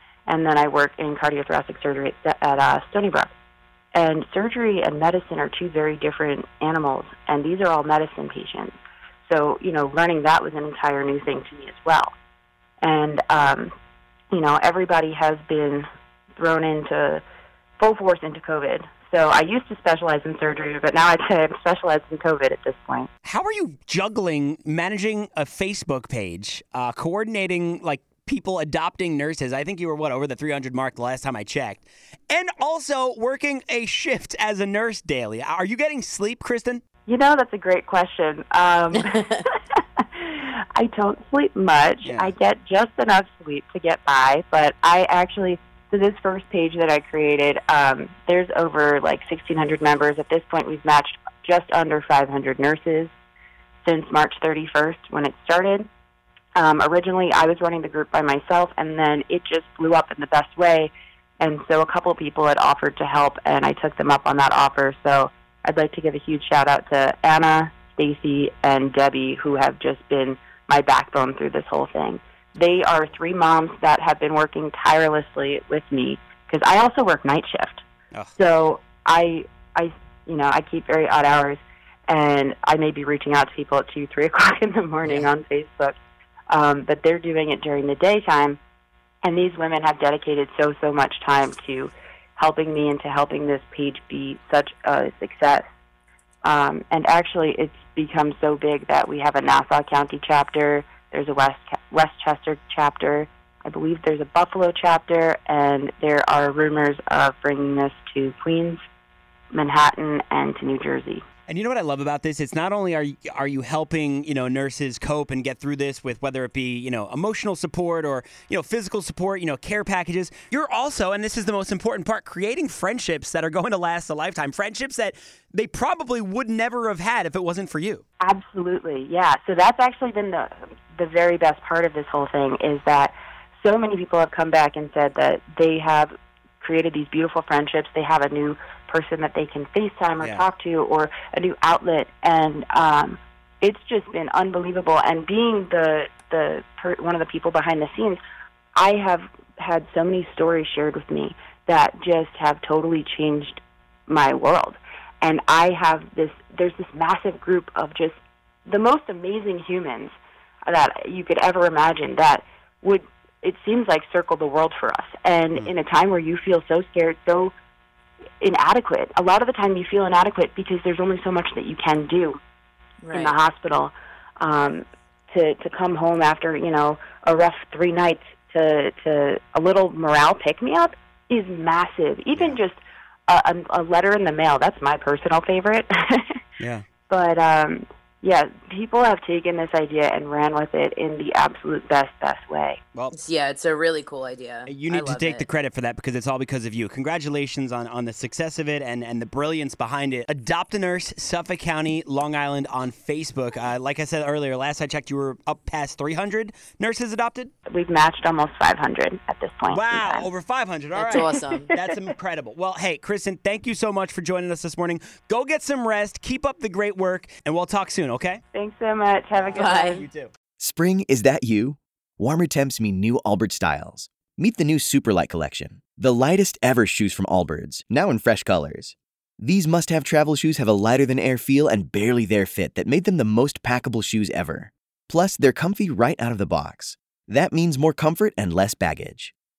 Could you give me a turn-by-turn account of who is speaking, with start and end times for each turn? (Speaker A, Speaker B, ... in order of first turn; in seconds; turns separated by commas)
Speaker A: 0.3-3.3, Speaker A: 3.9-12.1, Speaker A: 12.8-13.7, Speaker A: 14.3-15.9, Speaker A: 16.4-17.2, Speaker A: 17.8-23.1, Speaker B: 23.2-36.8, Speaker A: 37.1-53.1, Speaker C: 38.9-39.4, Speaker B: 42.0-42.3, Speaker A: 53.8-55.9, Speaker A: 56.5-77.8, Speaker A: 78.3-86.0, Speaker B: 85.0-85.3, Speaker A: 86.5-88.6, Speaker A: 89.2-95.7, Speaker A: 96.4-108.8, Speaker A: 109.5-111.2, Speaker B: 111.5-128.0, Speaker A: 128.2-148.2, Speaker B: 140.2-140.5, Speaker A: 148.8-160.1, Speaker A: 160.7-167.5, Speaker A: 168.4-172.4, Speaker C: 173.0-173.4, Speaker A: 173.1-186.4, Speaker B: 182.3-182.6, Speaker A: 187.1-192.8, Speaker C: 193.1-195.4, Speaker B: 194.7-207.5, Speaker A: 207.7-210.3, Speaker B: 209.7-218.4, Speaker C: 210.9-211.8, Speaker A: 211.1-211.7, Speaker A: 218.5-220.0, Speaker B: 219.3-220.3, Speaker C: 219.5-220.0, Speaker D: 220.6-239.3